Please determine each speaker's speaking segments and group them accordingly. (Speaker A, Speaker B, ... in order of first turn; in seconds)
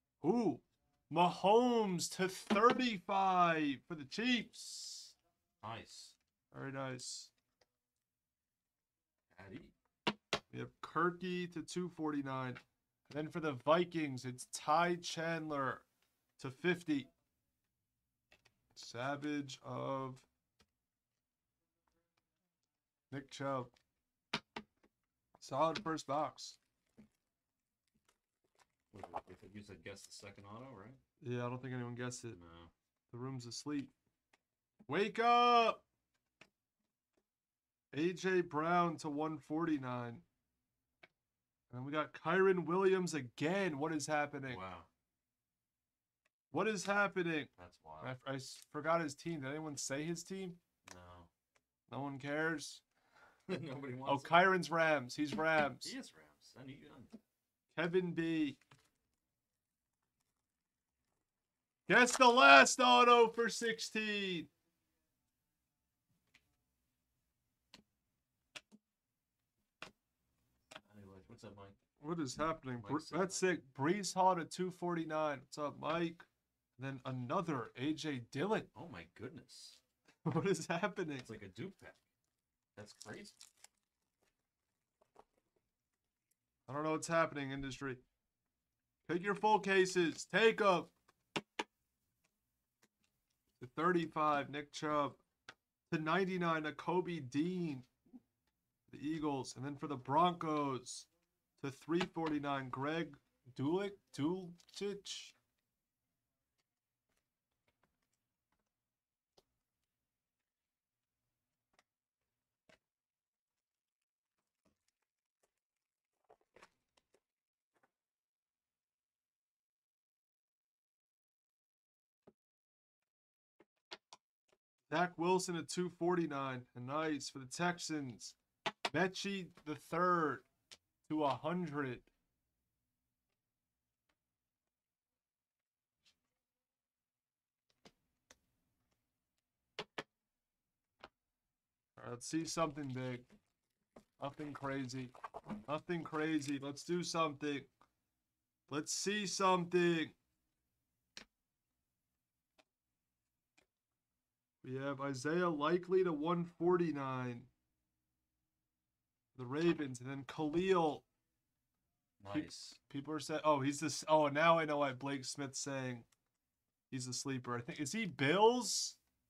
Speaker A: 0.2-5.1, 6.5-7.3, 10.5-15.8, 16.4-17.1, 18.7-20.2, 23.1-23.7, 25.4-26.6, 31.2-32.4, 33.1-33.9, 34.9-35.8, 37.9-40.2, 41.7-44.6, 46.5-47.5, 48.0-50.6, 51.9-52.8, 54.0-55.9, 57.7-58.6, 61.9-64.5, 72.0-76.2, 76.8-78.7, 80.2-81.3, 86.7-88.0, 89.0-90.9, 93.6-95.2, 95.9-97.9, 98.9-101.1, 101.6-105.3, 124.9-128.4, 128.9-130.4, 131.1-132.1, 142.0-143.3, 144.2-145.1, 145.7-147.7, 148.7-150.1, 154.6-157.5, 159.3-161.0, 162.3-166.1, 166.9-169.0
Speaker B: 5.6-6.1, 9.3-9.7, 28.9-31.0, 32.3-32.7, 44.4-44.9, 47.6-48.2, 50.8-51.3, 53.5-54.4, 55.8-57.2, 70.8-71.8, 72.8-73.6, 78.7-79.8, 81.2-82.0, 82.8-83.4, 162.2-162.8